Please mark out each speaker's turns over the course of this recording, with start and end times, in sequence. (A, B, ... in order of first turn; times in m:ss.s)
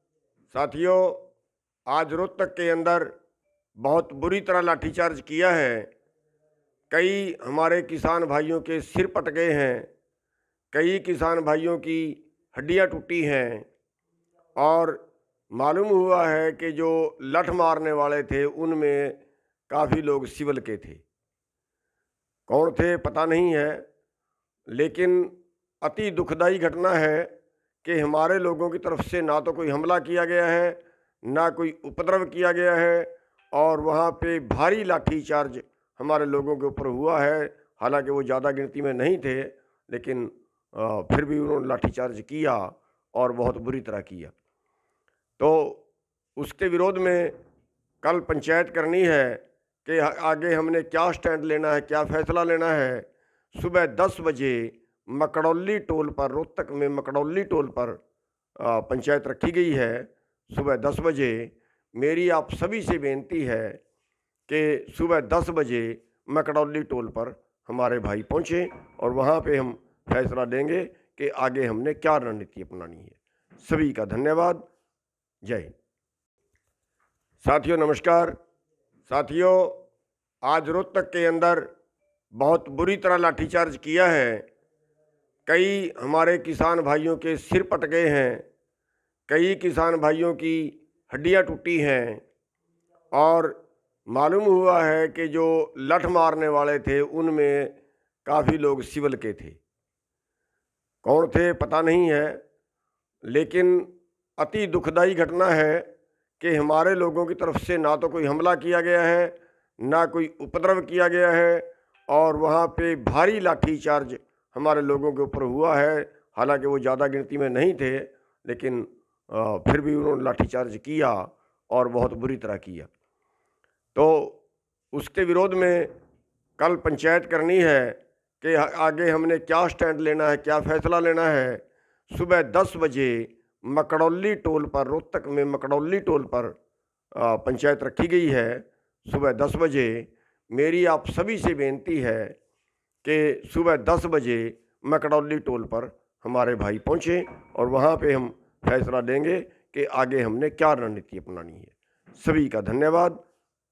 0:00.5-0:01.2 A
0:01.9-0:03.1 A
0:03.8-0:05.9 A
0:06.9-0:09.9 A
0:10.7-0:13.7 A
0:14.6-0:21.0 A
0:22.5-0:23.8 A
0:24.7-0:27.3 A
0:27.8-0:44.3 A
0:45.4-0:45.8 A
0:46.4-0:47.3 A
0:48.0-0:58.0 A
0:58.6-1:03.8 A
1:04.5-1:14.6 A
1:15.4-1:15.7 A
1:17.4-1:18.4 A
1:19.1-1:19.8 A
1:20.4-1:21.7 A
1:22.4-1:24.4 A
1:25.5-1:28.4 A
1:29.3-1:32.2 A
1:33.1-1:39.6 A
1:41.0-1:42.4 A
1:43.3-1:45.9 A
1:46.4-2:02.9 A
2:04.0-2:04.4 A
2:04.9-2:05.9 A
2:06.6-2:16.6 A
2:17.2-2:22.4 A
2:23.0-2:33.2 A